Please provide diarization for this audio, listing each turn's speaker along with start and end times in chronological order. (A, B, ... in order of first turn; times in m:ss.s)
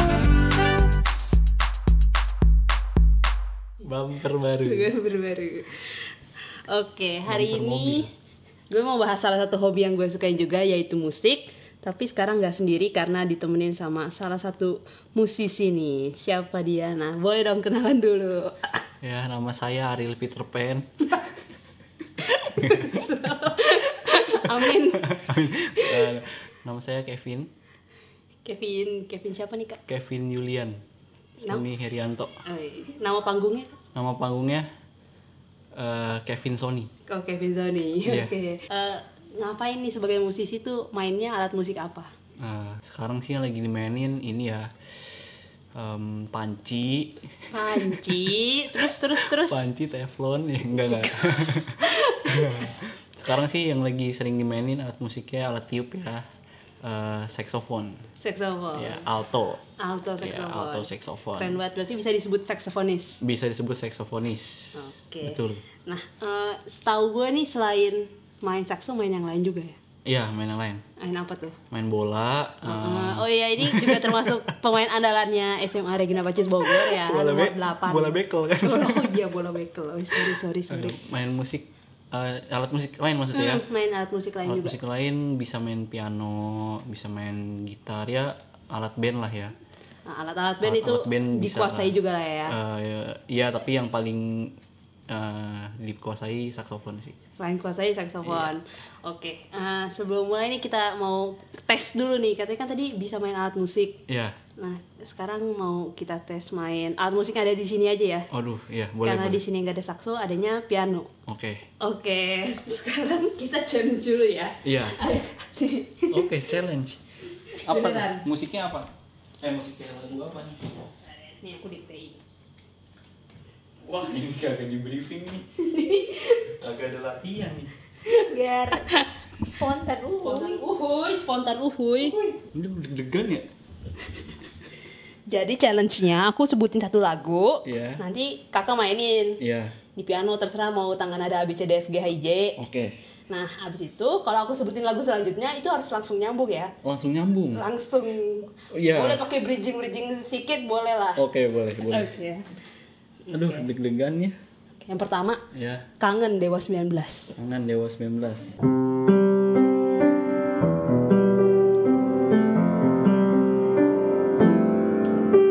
0:03.8-0:04.9 A
0:04.6-0:06.0 B
0:06.7-0:08.1 B
0:07.2-0:08.1 A
0:08.7-0:18.8 B
0:19.0-0:21.3 A
0:22.2-0:26.1 B
0:22.6-0:23.1 A
0:24.0-0:27.5 A
0:28.4-0:29.8 B
0:29.8-0:30.8 A
0:31.4-0:32.4 A
0:32.4-0:33.8 B
0:33.9-0:34.7 A
0:35.7-0:36.9 A
0:37.1-0:42.1 B
0:38.0-0:38.3 A
0:42.4-0:48.2 A
0:47.5-0:49.7 B
0:48.8-0:56.2 A
0:50.7-0:52.7 B
0:56.8-0:58.0 A
0:58.2-0:59.0 B
0:58.7-0:59.6 A
0:59.8-1:03.2 B
1:00.2-1:01.6 A
1:03.2-1:05.6 A
1:04.7-1:09.8 B
1:10.0-1:10.8 A
1:11.0-1:11.6 B
1:11.7-1:14.6 A
1:12.6-1:21.0 B
1:16.6-1:19.2 A
1:20.1-1:23.6 A
1:23.3-1:24.8 B
1:24.4-1:29.5 A
1:30.0-1:32.6 B
1:30.6-1:31.9 A
1:32.4-1:34.6 A
1:35.1-1:37.2 A
1:37.4-1:44.0 B
1:38.2-1:38.5 A
1:44.1-1:44.4 A
1:44.6-1:48.3 B
1:48.3-1:49.4 A
1:49.0-1:51.1 B
1:51.3-1:51.7 A
1:51.8-1:56.4 B
1:54.6-1:55.0 A
1:56.1-1:57.0 A
1:57.5-1:58.2 B
1:57.5-1:58.9 A
1:59.4-2:00.9 A
2:01.3-2:02.2 B
2:03.8-2:05.7 A
2:05.6-2:06.5 B
2:06.3-2:07.7 A
2:08.1-2:09.1 B
2:08.1-2:10.7 C
2:10.2-2:12.2 B
2:12.0-2:13.5 A
2:15.3-2:19.4 B
2:17.6-2:18.0 A
2:19.4-2:19.8 A
2:20.0-2:22.6 B
2:22.6-2:22.9 A
2:23.3-2:26.7 B
2:26.8-2:27.6 A
2:27.5-2:31.2 B
2:28.7-2:29.2 A
2:31.2-2:32.2 A
2:31.9-2:32.4 B
2:33.3-2:33.6 B
2:33.3-2:34.4 A
2:34.8-2:35.4 B
2:35.5-2:35.9 A
2:36.0-2:37.4 B
2:37.4-2:38.6 A